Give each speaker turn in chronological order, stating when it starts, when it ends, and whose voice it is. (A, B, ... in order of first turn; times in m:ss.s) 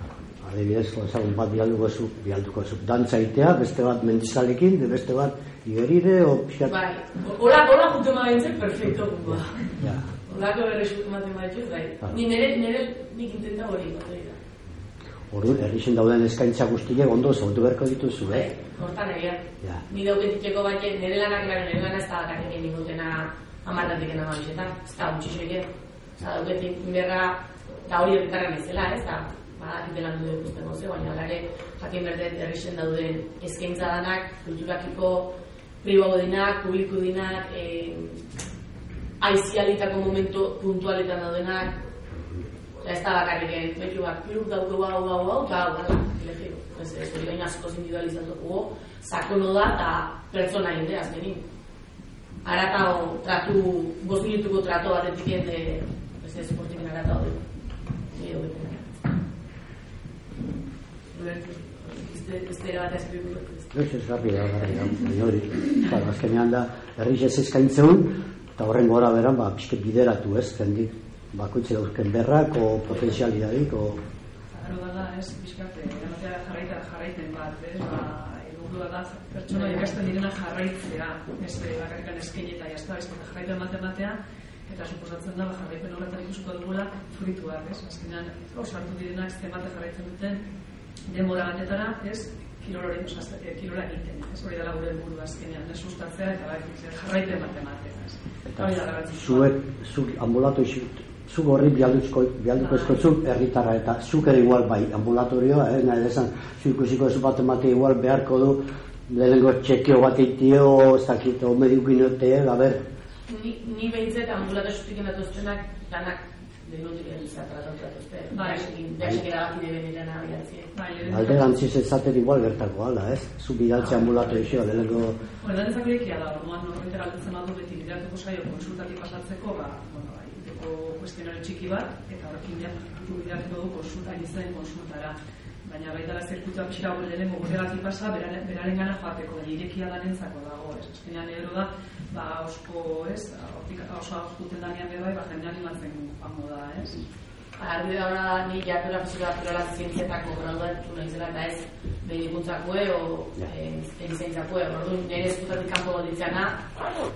0:00.4-0:06.7 A
0:06.6-0:14.4 B
0:09.8-0:10.1 A
0:15.3-0:18.5 A
0:18.3-0:38.2 B
0:39.2-0:41.8 B
0:42.8-0:51.4 B
0:52.4-0:57.4 B
0:58.1-0:59.1 B
1:01.1-1:03.7 B
1:03.7-1:14.0 A
1:14.5-1:30.4 C
1:31.1-1:39.5 C
1:38.5-1:52.8 A
1:42.6-1:43.0 C
1:53.3-2:00.7 B
1:58.3-1:58.7 C
2:00.7-2:01.5 C
2:01.0-2:05.2 A
2:03.8-2:04.1 B
2:05.4-2:27.0 C
2:27.6-2:36.6 B